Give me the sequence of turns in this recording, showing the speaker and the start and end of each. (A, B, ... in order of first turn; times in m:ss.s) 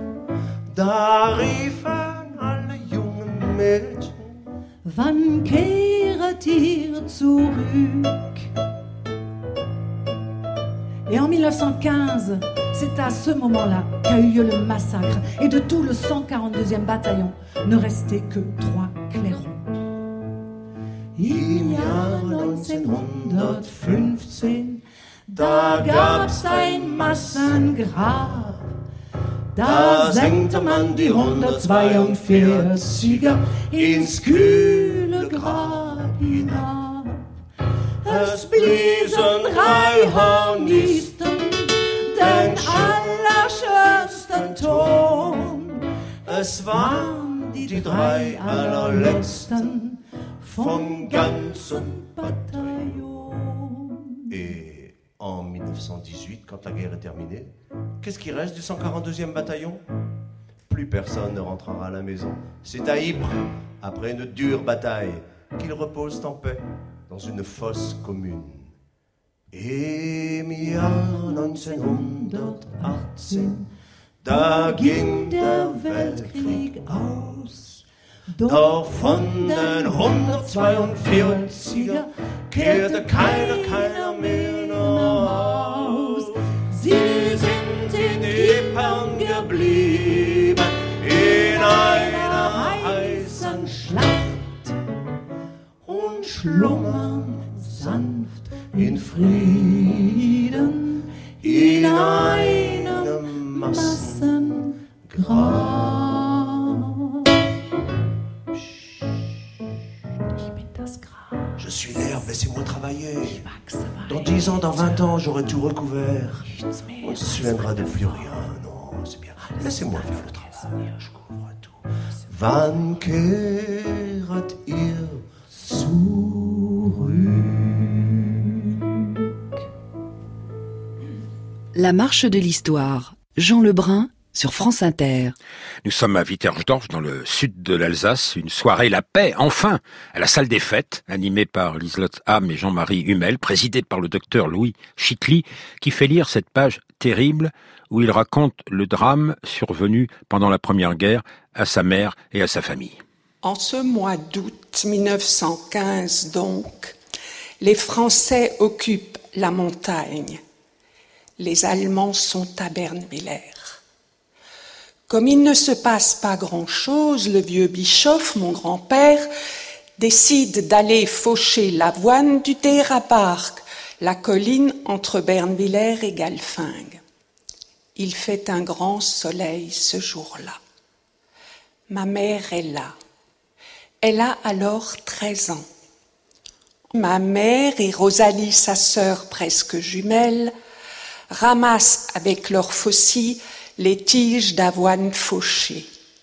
0:00.7-0:04.2 A
0:04.8-0:08.4 B
0:11.1-0:19.6 B
0:21.2-0:28.6 B
0:21.2-0:24.3 A
0:25.3-0:27.7 A
0:29.6-0:37.3 B
0:29.6-0:36.6 A
0:38.0-0:54.5 B
0:38.0-0:41.1 A
0:42.2-0:45.4 A
0:46.2-0:49.7 A
0:50.5-0:53.2 A
0:54.3-0:59.8 A
1:00.7-1:08.7 A
1:09.5-1:13.5 A
1:11.0-1:13.6 B
1:14.2-1:16.7 A
1:14.3-1:17.8 B
1:18.4-1:30.5 B
1:18.4-1:26.2 A
1:26.9-1:34.0 A
1:31.1-1:34.7 B
1:35.9-1:38.0 A
1:35.9-1:46.8 B
1:38.7-1:40.0 A
1:41.4-1:44.3 A
1:45.1-1:46.0 A
1:50.3-1:52.3 B
1:51.6-1:53.4 A
1:53.2-1:55.2 B
1:54.1-1:56.5 A
1:56.5-1:58.3 B
1:57.0-2:01.7 A
1:59.5-2:00.4 B
2:02.3-2:05.2 A
2:05.6-2:06.4 B
2:11.7-2:15.3 C
2:15.8-2:33.0 D
2:33.4-2:37.0 E
2:37.6-2:40.4 E
2:41.4-2:43.8 E
2:45.1-2:49.3 E
2:50.0-2:57.0 E
2:58.0-3:00.6 E
3:01.9-3:02.9 E
3:04.0-3:05.7 E
3:06.9-3:10.5 E
3:11.3-3:15.9 E